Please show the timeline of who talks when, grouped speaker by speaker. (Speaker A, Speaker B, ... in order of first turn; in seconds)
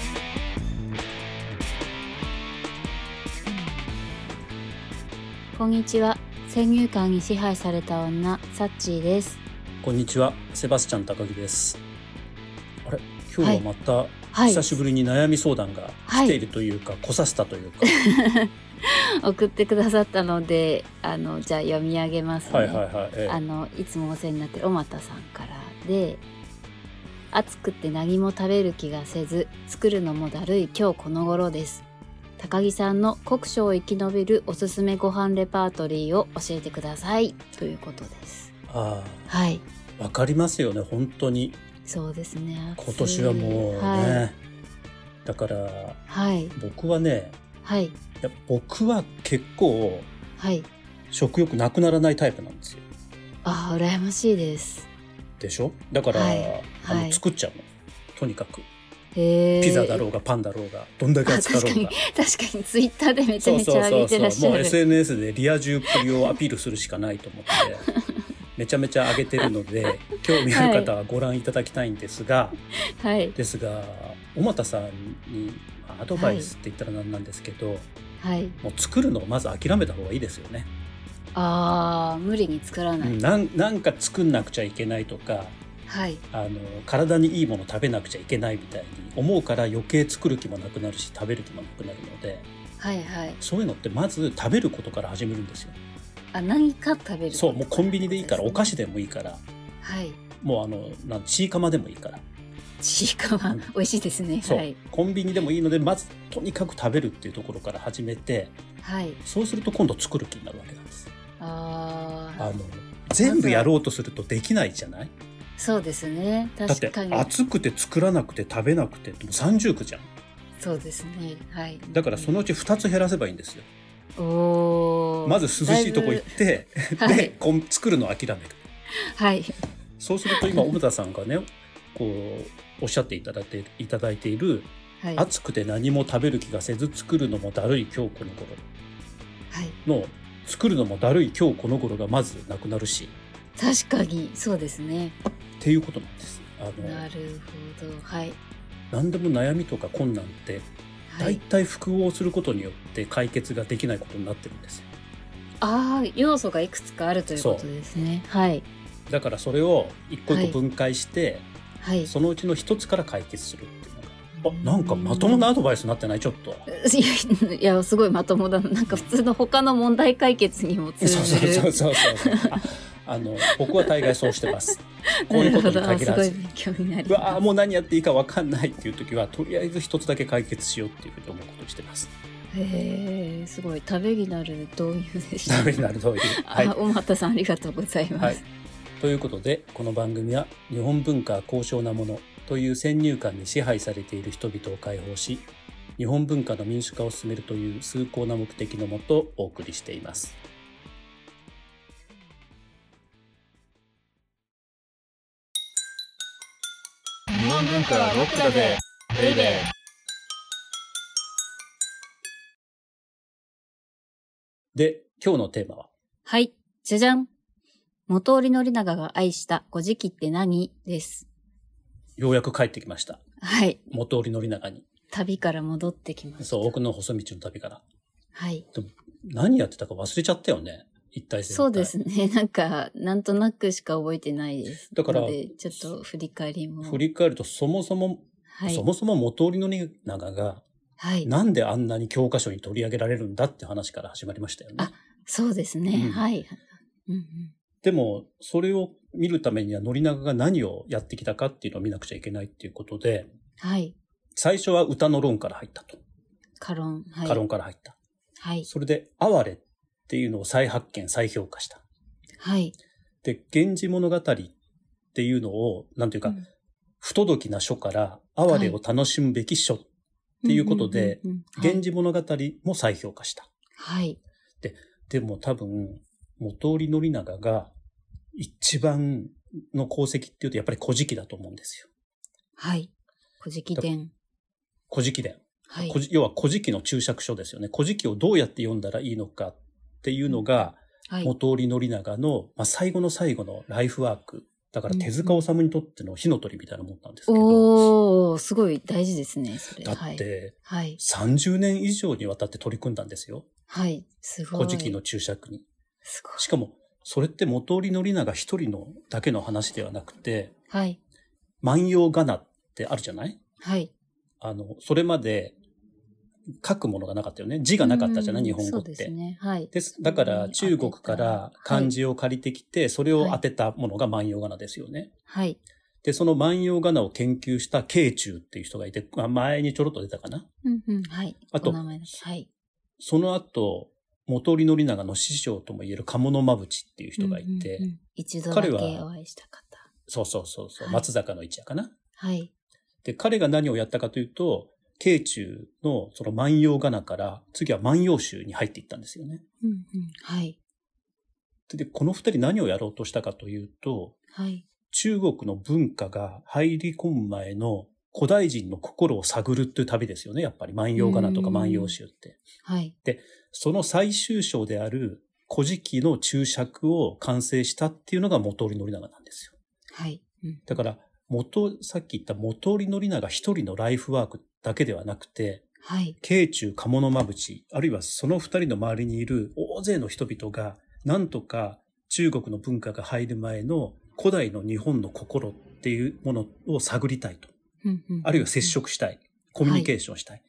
Speaker A: 5.5-9.4, 14.3-14.8, 16.1-16.4, 17.9-26.2, 27.3-31.9, 32.4-38.5, 39.3-39.6, 41.9-44.3, 46.1-46.5, 47.6-48.0, 50.4-50.7, 53.4-54.9, 56.1-57.2, 59.1-60.0, 61.2-64.8, 65.9-66.3, 70.5-70.9, 73.0-73.4, 76.1-76.5, 78.2-78.6, 81.3-83.2, 85.9-86.2, 92.8-93.4, 96.3-98.8, 99.8-100.2, 102.8-104.8, 108.8-109.2, 111.4-112.5, 113.2-113.7, 115.6-117.3, 120.6-122.4, 124.2-126.4, 127.0-127.3, 129.1-129.6, 130.3-130.7, 135.0-135.3, 139.5-139.8, 143.6-145.2, 146.8-148.4, 151.1-151.4, 155.6-158.7, 160.3-160.6, 161.8-162.1, 164.4-165.5, 166.7-172.6, 173.4-177.4, 182.5-188.4, 216.3-217.3, 218.1-221.3, 223.4-223.8, 225.1-226.8, 228.3-228.7, 231.5-237.0, 238.5-238.8, 241.0-241.3, 244.8-247.5, 253.6-254.0, 256.6-257.4, 258.4-258.7, 262.4-262.8, 268.5-268.8, 270.4-271.8, 273.8-274.2, 282.6-284.1, 285.7-286.0, 291.1-291.3, 294.9-295.4, 297.3-301.0, 303.7-305.0, 306.0-306.5, 310.7-311.0, 313.6-313.9, 317.8-321.9, 323.1-323.4, 325.3-325.6, 330.6-332.5, 337.2-339.9, 340.8-341.1, 342.2-342.5, 349.6-350.6, 354.3-354.6, 361.0-362.0, 362.6-362.9, 369.9-370.8, 375.8-376.2, 387.8-388.8, 389.6-389.9
Speaker B: 9.8-11.8, 12.8-18.0, 22.5-23.4, 38.7-39.3, 40.0-41.6, 42.8-44.4, 45.2-46.0, 46.5-47.4, 48.2-50.1, 51.1-52.8, 55.4-58.7, 59.6-62.0, 63.4-67.9, 68.6-72.6, 73.3-77.9, 78.6-80.7, 83.0-85.6, 86.3-92.5, 93.4-95.8, 97.3-99.4, 100.4-102.2, 104.4-108.6, 109.2-111.1, 112.4-115.1, 116.7-120.1, 121.9-123.7, 125.2-128.6, 130.0-138.7, 139.8-143.1, 145.6-147.1, 148.9-154.9, 157.4-157.7, 159.1-161.5, 162.0-166.7, 171.0-176.4, 177.1-182.1, 185.5-186.8, 189.0-195.5, 196.0-200.4, 214.8-215.9, 222.2-223.2, 223.9-224.9, 226.4-227.8, 228.8-231.9, 234.9-235.9, 236.8-240.7, 241.2-244.9, 245.9-246.2, 247.8-253.3, 254.3-256.0, 257.2-258.0, 258.7-261.8, 263.2-264.5, 265.1-266.4, 267.0-269.9, 270.4-273.5, 274.6-277.8, 278.3-281.9, 284.9-297.9, 299.8-303.4, 304.5-305.6, 306.4-310.5, 311.6-313.4, 314.4-315.6, 316.6-319.1, 319.7-325.1, 326.0-330.5, 331.5-332.2, 333.0-337.9, 338.5-339.1, 340.1-341.9, 343.0-349.4, 351.7-354.2, 354.9-362.4, 363.0-369.5, 370.7-375.7, 376.2-387.5, 388.2-390.4
Speaker C: 207.3-209.7